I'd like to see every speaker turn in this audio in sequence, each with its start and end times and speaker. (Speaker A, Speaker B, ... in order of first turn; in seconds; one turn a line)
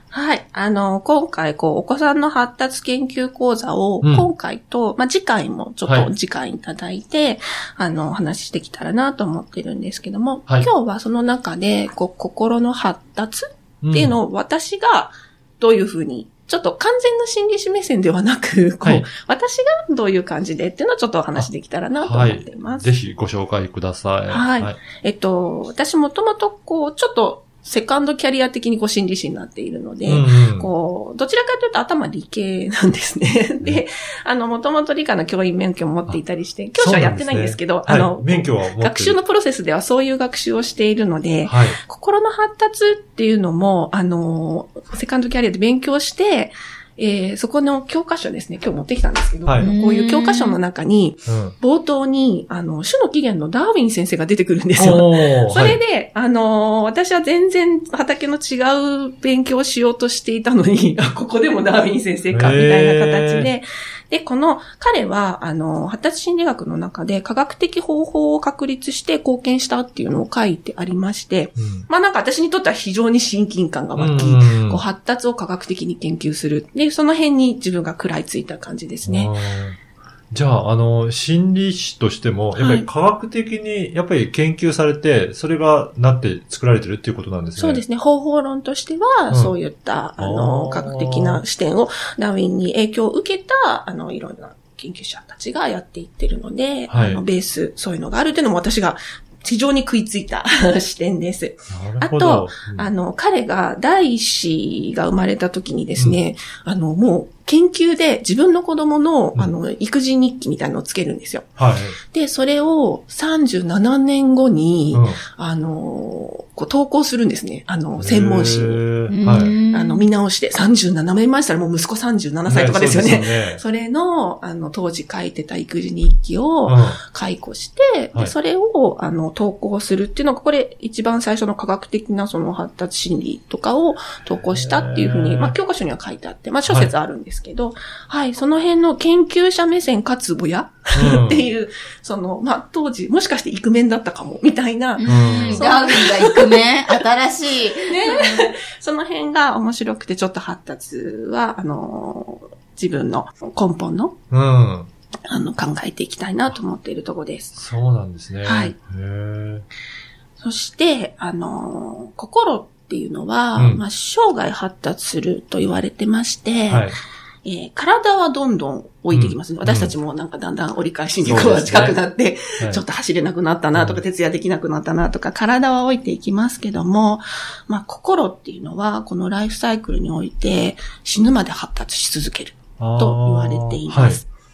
Speaker A: 0.1-22.9
Speaker B: 4.0-4.3
Speaker B: 13.8-14.2
Speaker B: 18.8-19.1
Speaker B: 21.4-24.8
Speaker A: 24.3-79.3
Speaker B: 30.1-30.7
Speaker B: 36.8-39.2
Speaker B: 41.4-41.8
Speaker B: 49.5-49.7
Speaker C: 49.6-50.6
Speaker B: 51.3-51.5
Speaker B: 54.8-55.8
Speaker B: 62.3-63.5
Speaker B: 71.6-71.9
Speaker B: 74.0-74.8
Speaker B: 79.0-79.8
Speaker B: 80.3-87.8
Speaker A: 82.6-82.9
Speaker A: 87.6-118.9
Speaker B: 90.2-91.4
Speaker B: 96.9-97.2
Speaker B: 101.7-102.9
Speaker B: 111.6-112.0
Speaker B: 114.9-115.2
Speaker B: 118.0-119.6
Speaker C: 119.1-120.1
Speaker A: 119.7-146.6
Speaker B: 122.5-123.6
Speaker B: 126.7-127.0
Speaker B: 134.5-135.6
Speaker B: 136.7-136.9
Speaker B: 140.9-141.5
Speaker C: 145.0-148.5
Speaker B: 145.0-145.7
Speaker A: 147.9-154.2
Speaker B: 154.3-154.9
Speaker A: 155.3-157.6
Speaker B: 157.6-159.7
Speaker A: 158.4-158.8
Speaker A: 160.4-166.9
Speaker B: 163.6-163.8
Speaker B: 166.7-167.0
Speaker A: 167.4-184.3
Speaker B: 169.1-169.9
Speaker B: 171.2-172.0
Speaker B: 173.8-174.0
Speaker B: 182.8-184.2